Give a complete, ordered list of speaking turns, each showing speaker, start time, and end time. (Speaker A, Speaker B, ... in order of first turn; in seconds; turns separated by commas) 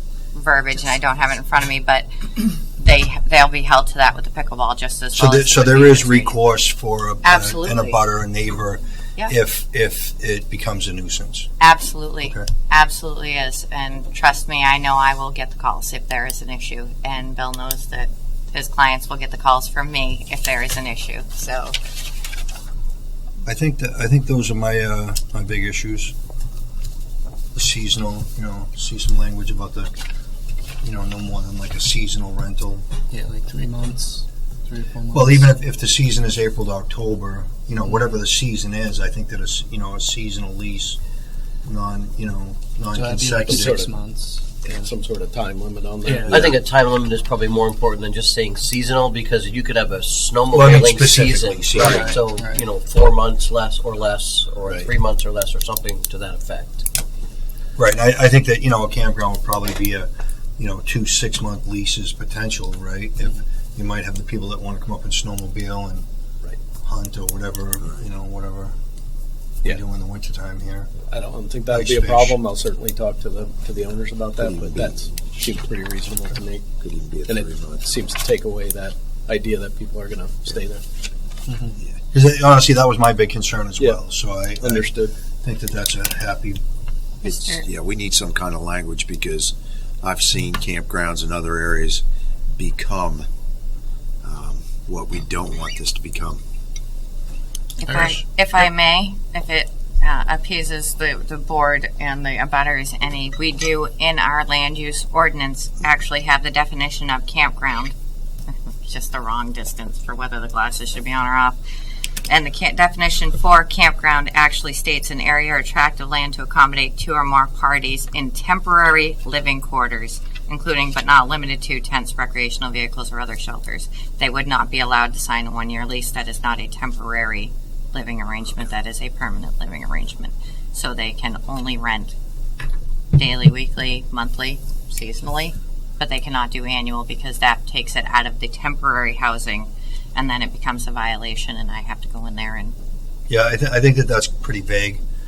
Speaker A: 0.3-6.4, Speaker B: 5.1-11.5, Speaker A: 7.2-8.0, Speaker A: 11.6-21.8, Speaker B: 23.4-26.1, Speaker B: 27.5-29.9, Speaker B: 30.8-32.8, Speaker C: 33.1-35.5, Speaker B: 35.1-41.0, Speaker B: 41.6-43.9, Speaker C: 42.9-44.9, Speaker D: 43.4-43.9, Speaker D: 44.6-46.6, Speaker C: 46.0-46.5, Speaker E: 46.3-56.8, Speaker B: 50.5-52.2, Speaker C: 51.8-52.6, Speaker D: 54.6-54.9, Speaker B: 57.8-66.0, Speaker B: 66.8-68.8, Speaker B: 69.6-70.9, Speaker D: 71.1-76.7, Speaker B: 71.7-72.4, Speaker F: 74.4-75.1, Speaker F: 76.8-77.8, Speaker D: 77.3-80.8, Speaker B: 82.1-84.9, Speaker D: 84.6-85.1, Speaker B: 85.4-86.6, Speaker A: 87.2-87.6, Speaker F: 87.2-93.3, Speaker F: 94.2-96.4, Speaker A: 97.8-107.9, Speaker A: 108.5-111.6, Speaker A: 112.3-132.1, Speaker A: 133.1-142.7, Speaker B: 143.3-145.0